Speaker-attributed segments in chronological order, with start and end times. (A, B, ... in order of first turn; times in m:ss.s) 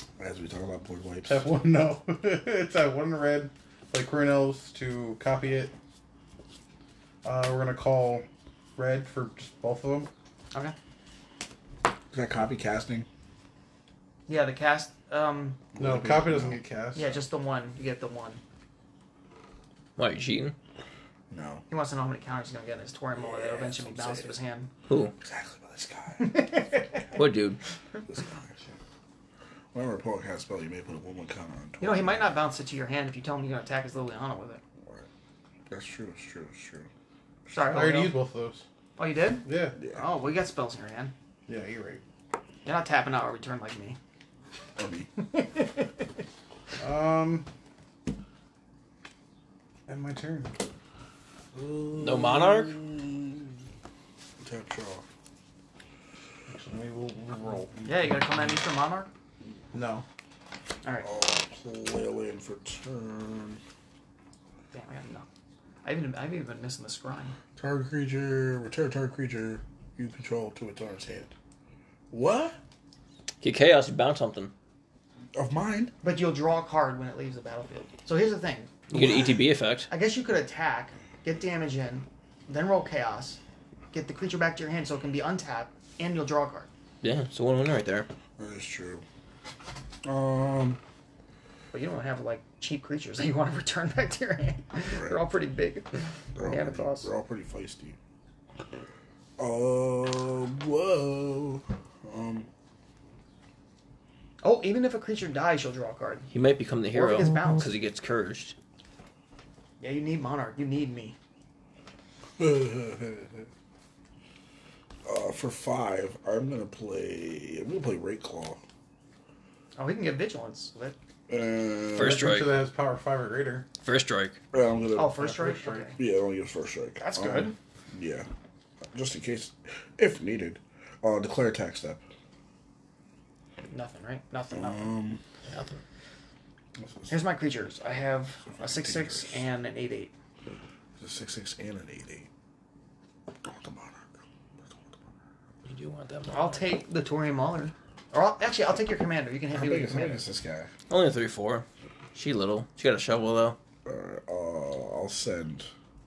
0:00.2-0:01.4 A
0:01.3-0:05.7 B
0:07.2-0:08.2 B
0:08.8-0:10.1 B
0:12.1-0:13.1 A
0:14.3-0:15.6 C
0:15.7-0:16.6 A
0:15.8-0:17.2 B
0:17.0-0:18.4 C
0:20.0-0:20.5 D
0:21.3-0:21.6 A
0:21.7-0:24.7 C
0:23.2-0:24.4 A
0:24.9-0:25.1 D
0:25.2-0:27.2 A
0:26.2-0:26.9 C
0:27.1-0:27.6 D
0:28.0-0:28.7 A
0:29.7-0:32.3 A
0:31.8-0:34.6 C
0:34.8-0:35.1 A
0:35.7-0:36.9 A
0:37.5-0:38.1 C
0:37.7-0:38.6 B
0:39.0-0:41.1 C
0:39.4-0:39.8 B
0:39.8-0:40.1 A
0:41.5-0:42.0 B
0:42.6-0:44.0 C
0:44.8-0:45.3 A
0:45.4-0:45.7 C
0:46.8-0:47.5 B
0:49.9-0:50.5 B
0:51.5-0:53.5 A
0:52.0-0:52.8 D
0:54.4-0:55.0 A
0:56.5-0:57.9 B
0:57.8-0:59.1 C
0:59.7-1:00.0 B
1:01.0-1:03.6 A
1:04.7-1:05.2 C
1:05.8-1:07.4 C
1:07.6-1:11.3 A
1:12.1-1:12.6 A
1:13.4-1:14.5 D
1:15.3-1:15.9 A
1:16.0-1:18.7 C
1:18.9-1:19.9 D
1:18.9-1:19.4 A
1:19.9-1:23.4 C
1:23.9-1:26.7 C
1:27.0-1:28.1 D
1:28.4-1:29.0 A
1:30.0-1:30.8 A
1:31.7-1:37.1 C
1:34.9-1:35.2 A
1:36.3-1:38.0 A
1:39.4-1:42.5 A
1:44.4-1:46.3 C
1:46.3-1:48.5 D
1:46.9-1:47.7 C
1:49.8-1:51.2 C
1:52.4-1:53.5 A
1:55.0-1:58.6 A
1:59.8-2:01.0 C
2:01.3-2:02.2 A
2:01.9-2:02.5 D
2:02.0-2:03.7 B
2:03.8-2:04.4 D
2:04.5-2:08.3 A
2:04.9-2:06.0 C
2:05.1-2:05.9 B
2:07.0-2:07.5 C
2:08.9-2:12.0 A
2:13.7-2:14.9 C
2:14.5-2:15.2 A
2:15.4-2:15.8 D
2:16.8-2:17.1 A
2:17.1-2:20.1 C
2:18.6-2:19.4 A
2:21.0-2:22.3 A
2:23.4-2:24.2 A
2:25.6-2:26.7 D
2:26.3-2:30.2 C
2:29.5-2:30.7 A
2:30.9-2:33.6 D
2:33.8-2:35.7 A